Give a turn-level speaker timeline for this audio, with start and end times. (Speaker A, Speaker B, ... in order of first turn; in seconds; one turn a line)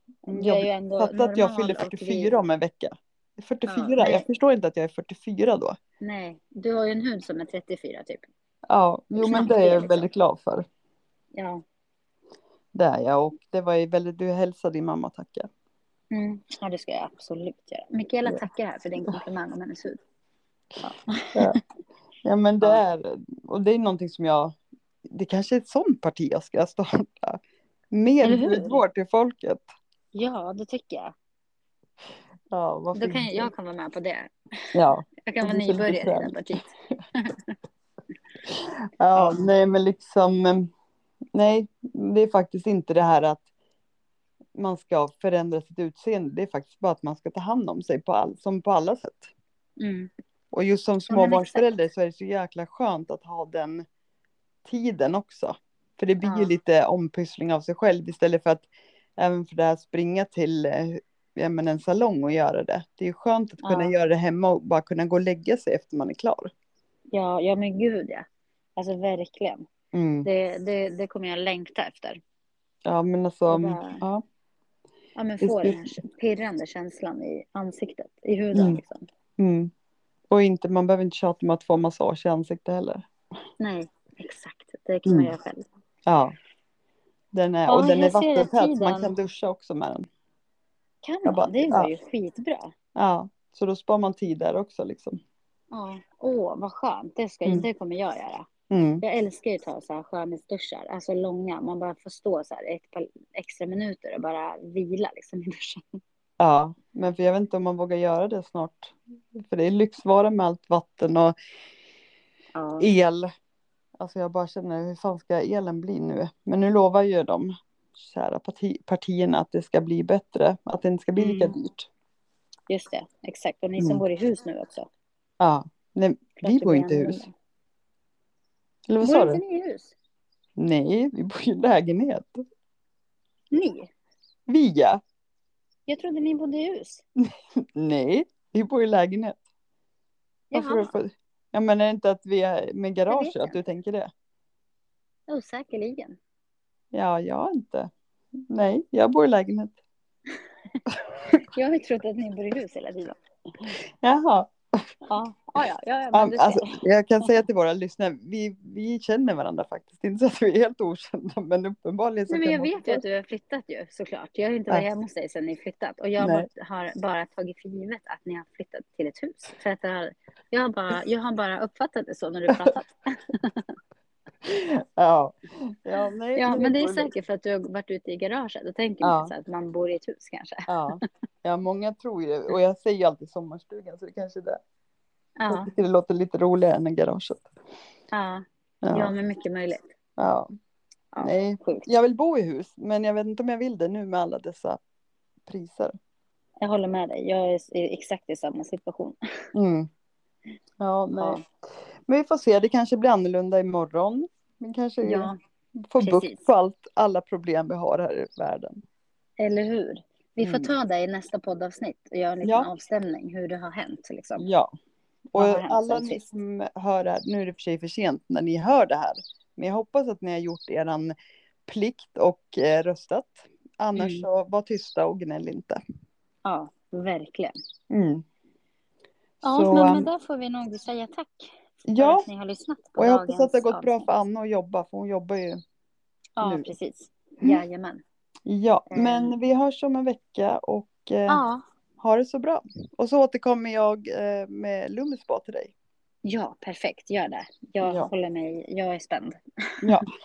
Speaker A: 0.3-2.3
Speaker B: 0.3-5.8
Speaker A: 3.7-4.2
Speaker A: 6.0-8.2
Speaker B: 8.7-10.6
Speaker A: 9.2-10.1
Speaker A: 11.3-11.6
Speaker B: 12.7-15.5
Speaker A: 16.1-20.0
Speaker A: 20.8-21.6
Speaker B: 22.2-24.5
Speaker B: 25.1-27.4
Speaker B: 27.9-29.7
Speaker A: 28.2-28.8
Speaker A: 30.1-31.1
Speaker B: 32.5-33.5
Speaker A: 32.9-34.6
Speaker B: 34.7-36.6
Speaker A: 35.3-37.5
Speaker B: 38.5-40.7
Speaker A: 39.1-39.5
Speaker B: 41.3-43.4
Speaker B: 44.5-49.3
Speaker A: 49.8-50.1
Speaker B: 50.5-53.8
Speaker A: 51.1-51.6
Speaker B: 54.6-58.7
Speaker A: 56.2-56.5
Speaker B: 59.2-66.5
Speaker A: 63.6-63.9
Speaker A: 67.1-69.7
Speaker B: 69.9-70.3
Speaker A: 70.2-72.2
Speaker B: 72.8-74.2
Speaker A: 73.5-74.0
Speaker A: 75.2-79.1
Speaker B: 75.4-76.0
Speaker B: 78.5-78.8
Speaker B: 79.4-79.7
Speaker B: 80.3-83.1
Speaker A: 83.6-85.7
Speaker B: 85.0-85.3
Speaker B: 86.0-86.3
Speaker B: 87.3-90.0
Speaker A: 87.7-89.1
Speaker A: 91.0-92.7
Speaker B: 91.2-91.9
Speaker B: 93.0-95.2
Speaker A: 95.7-98.5
Speaker B: 98.7-99.0
Speaker A: 99.0-106.0
Speaker B: 106.4-111.3
Speaker A: 112.5-112.9
Speaker B: 112.8-113.3
Speaker B: 114.0-121.9
Speaker A: 121.2-121.5
Speaker A: 122.7-124.9
Speaker B: 125.4-127.3
Speaker A: 126.4-127.3
Speaker B: 128.9-129.4
Speaker A: 129.0-129.9
Speaker B: 130.6-132.4
Speaker A: 133.5-133.9
Speaker B: 134.5-135.0
Speaker A: 135.9-137.0
Speaker B: 137.2-139.4
Speaker A: 140.5-140.9
Speaker B: 140.5-144.1
Speaker A: 143.1-143.6
Speaker A: 145.3-146.2
Speaker B: 146.9-147.9
Speaker B: 148.5-149.8
Speaker B: 150.9-151.4
Speaker A: 151.5-153.7
Speaker B: 154.0-154.9
Speaker A: 155.1-157.3
Speaker B: 156.1-163.0
Speaker A: 162.3-173.7
Speaker B: 166.2-166.4
Speaker B: 174.4-177.1
Speaker A: 176.3-181.0
Speaker B: 179.0-179.3
Speaker B: 180.7-184.6
Speaker A: 185.4-185.7
Speaker B: 185.5-187.5
Speaker A: 188.1-189.9
Speaker B: 188.8-189.1
Speaker B: 190.2-190.5
Speaker A: 191.1-191.9
Speaker B: 191.2-194.8
Speaker B: 195.5-195.9
Speaker A: 196.6-199.2
Speaker B: 199.5-199.9
Speaker B: 200.8-201.5
Speaker A: 201.2-201.4
Speaker B: 202.1-205.3
Speaker A: 205.0-205.3
Speaker B: 205.9-208.8
Speaker A: 206.0-206.5
Speaker A: 209.4-214.5
Speaker B: 210.4-210.7
Speaker B: 212.4-212.7
Speaker B: 214.4-214.7
Speaker B: 215.3-221.1
Speaker A: 215.3-216.3
Speaker B: 221.7-225.8
Speaker A: 223.9-224.2
Speaker A: 226.4-227.5
Speaker B: 227.9-228.2
Speaker B: 229.4-230.1
Speaker A: 229.4-234.1
Speaker B: 231.8-232.3
Speaker B: 233.0-235.6
Speaker A: 236.4-238.0
Speaker B: 236.4-236.7
Speaker B: 238.4-241.4
Speaker A: 238.9-239.3
Speaker A: 241.3-241.6
Speaker B: 242.0-245.7
Speaker A: 246.2-249.9
Speaker B: 247.8-248.1